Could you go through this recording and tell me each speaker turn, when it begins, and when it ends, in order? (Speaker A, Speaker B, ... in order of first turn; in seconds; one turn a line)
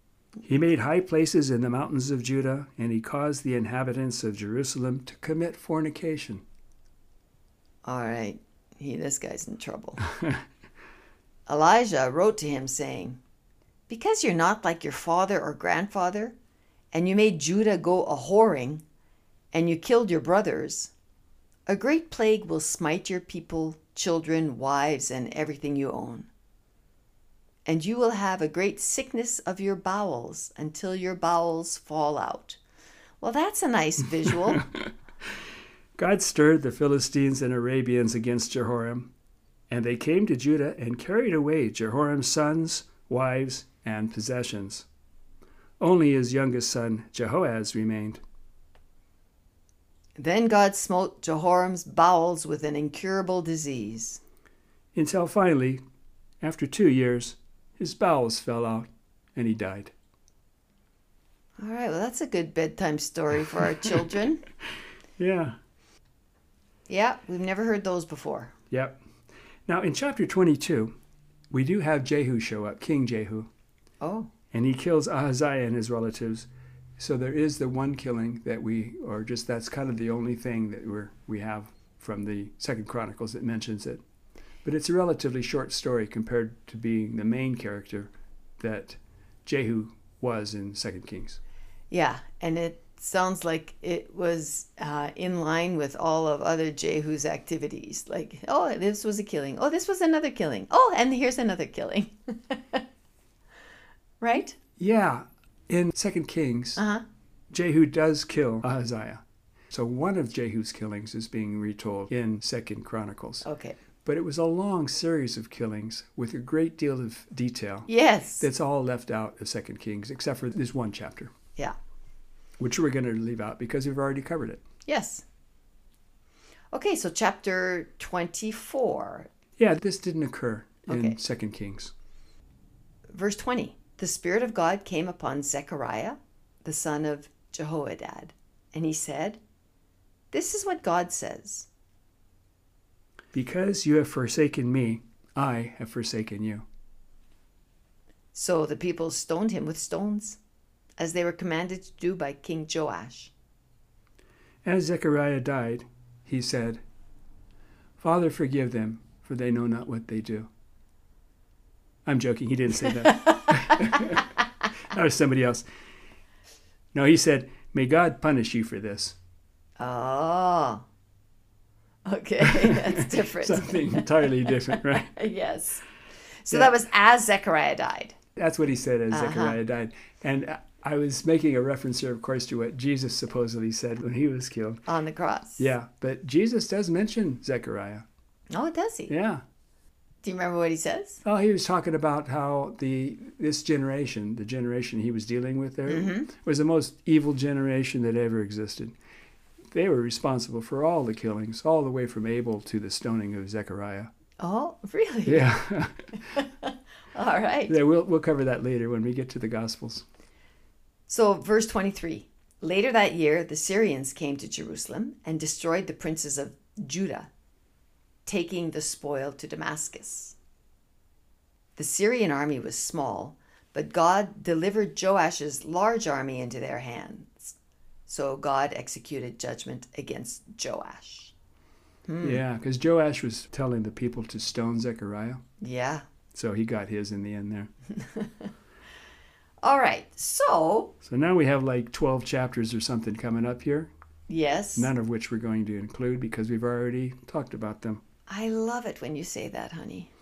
Speaker A: 0.4-6.4
Speaker B: 7.8-10.0
Speaker B: 11.5-13.2
Speaker B: 13.9-16.4
Speaker B: 16.9-18.8
Speaker B: 19.5-20.9
Speaker B: 21.7-26.3
Speaker B: 27.6-32.6
Speaker B: 33.2-34.6
Speaker A: 34.5-34.9
Speaker A: 36.0-39.1
Speaker A: 39.7-44.9
Speaker A: 45.8-48.2
Speaker B: 50.2-54.2
Speaker A: 54.9-55.8
Speaker A: 56.4-59.9
Speaker B: 61.6-64.4
Speaker A: 65.2-65.5
Speaker B: 66.9-68.5
Speaker A: 68.7-69.0
Speaker A: 69.7-70.9
Speaker A: 71.5-73.5
Speaker B: 74.0-74.3
Speaker A: 74.5-84.0
Speaker A: 84.6-91.4
Speaker B: 91.9-102.8
Speaker B: 104.2-104.5
Speaker A: 104.8-106.8
Speaker B: 106.8-107.0
Speaker A: 107.5-113.4
Speaker B: 113.4-113.8
Speaker A: 114.0-117.9
Speaker B: 117.9-118.5
Speaker A: 118.4-121.3
Speaker A: 122.6-124.6
Speaker B: 124.8-125.2
Speaker B: 126.7-129.3
Speaker A: 129.6-131.9
Speaker B: 130.9-131.2
Speaker B: 133.1-139.4
Speaker B: 140.3-141.7
Speaker A: 143.3-146.6
Speaker B: 148.3-150.4
Speaker B: 151.0-153.3
Speaker A: 154.6-156.8
Speaker A: 158.0-160.5
Speaker A: 162.1-164.3
Speaker B: 163.2-164.1
Speaker A: 164.9-165.6
Speaker A: 166.9-169.2
Speaker B: 169.8-170.8
Speaker B: 172.0-175.8
Speaker A: 172.4-175.1
Speaker B: 176.4-178.2
Speaker A: 178.4-184.8
Speaker B: 179.1-179.6
Speaker B: 184.9-185.7
Speaker A: 185.6-188.1
Speaker B: 188.5-189.1
Speaker A: 189.1-189.4
Speaker B: 190.2-191.2
Speaker A: 191.2-198.9
Speaker B: 195.9-196.3
Speaker A: 199.7-204.1
Speaker B: 204.4-205.5
Speaker A: 205.2-206.1
Speaker B: 206.3-207.7
Speaker A: 207.7-210.0
Speaker B: 211.1-217.3
Speaker B: 218.2-220.3
Speaker B: 221.8-227.6
Speaker B: 228.1-231.3
Speaker B: 232.1-232.4
Speaker A: 232.2-235.4
Speaker B: 235.6-236.0
Speaker A: 236.3-237.7
Speaker B: 237.9-238.5
Speaker B: 239.6-240.9
Speaker A: 241.0-243.9
Speaker B: 244.3-244.9
Speaker A: 244.8-248.0
Speaker B: 248.3-250.1